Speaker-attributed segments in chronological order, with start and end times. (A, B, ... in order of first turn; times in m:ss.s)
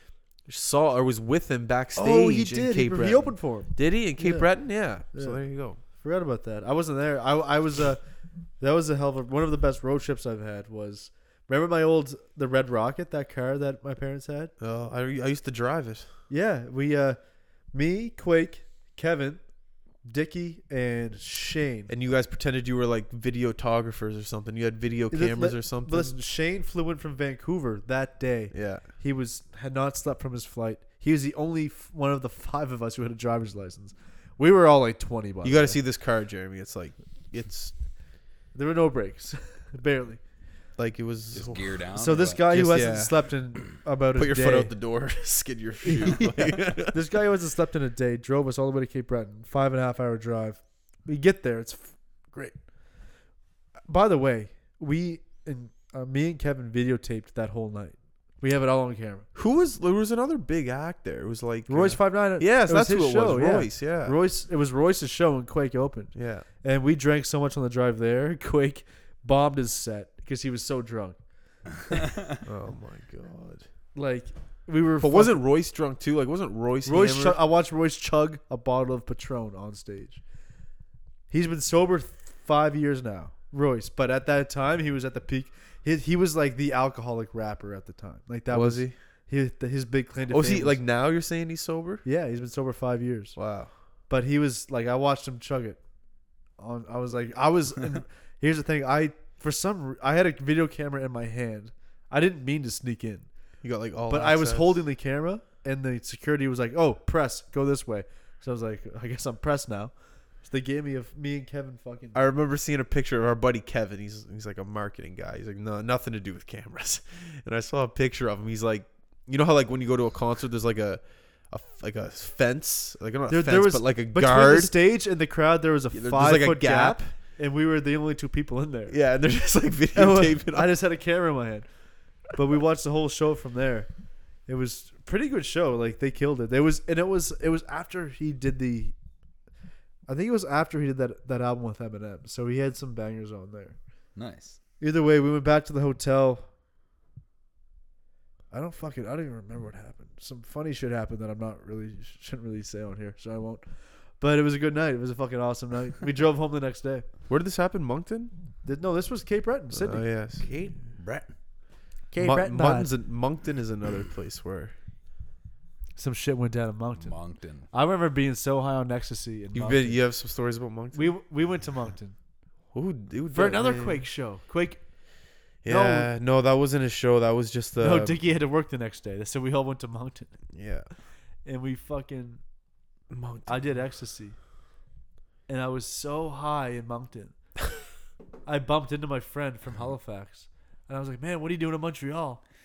0:00.5-0:05.8 A
0:02.0-0:08.0 B
0:08.6-0:14.5 B
0:14.6-0:16.1 A
0:16.3-0:17.2 B
0:17.7-0:19.4 B
0:20.0-0:21.9 B
0:21.9-0:26.1 A
0:25.1-0:35.8 B
0:28.5-0:28.8 A
0:35.4-0:37.7 A
0:38.5-0:40.2 B
0:40.8-0:41.7 A
0:41.3-0:42.4 C
0:42.0-0:44.7 B
0:42.5-0:43.2 A
0:44.2-0:47.0 A
0:45.8-0:52.6 B
0:53.9-0:59.3 B
0:59.4-1:04.2 A
1:01.7-1:11.2 B
1:06.2-1:06.5 A
1:12.4-1:13.6 A
1:14.0-1:15.4 B
1:15.0-1:17.4 A
1:16.8-1:20.2 B
1:21.3-1:30.8 B
1:28.5-1:29.0 A
1:30.3-1:32.0 A
1:32.0-1:33.4 B
1:33.4-1:33.7 A
1:34.1-1:35.8 B
1:36.6-1:43.3 B
1:43.6-1:44.8 A
1:44.1-1:52.2 B
1:52.2-2:04.7 A
2:03.3-2:08.9 B
2:05.9-2:07.1 A
2:08.9-2:10.7 A
2:10.0-2:11.7 B
2:12.3-2:13.9 B
2:14.5-2:18.9 B
2:20.1-2:23.8 B
2:24.2-2:24.6 C
2:24.8-2:26.4 B
2:28.5-2:33.6 B
2:34.2-2:37.1 B
2:37.3-2:38.3 A
2:38.6-2:40.1 B
2:39.7-2:40.5 A
2:40.4-2:41.3 C
2:42.1-2:42.9 B
2:42.2-2:44.7 A
2:46.0-2:47.2 B
2:47.0-2:47.7 C
2:47.7-2:50.0 B
2:49.6-2:51.1 A
2:50.9-2:52.2 B
2:52.7-2:54.0 A
2:53.3-2:54.8 B
2:55.6-2:58.2 A
2:55.7-2:56.1 B
2:57.8-3:00.4 B
3:00.5-3:00.9 A
3:01.4-3:02.4 B
3:03.1-3:03.6 A
3:03.5-3:04.4 B
3:05.5-3:07.4 B
3:08.5-3:12.4 B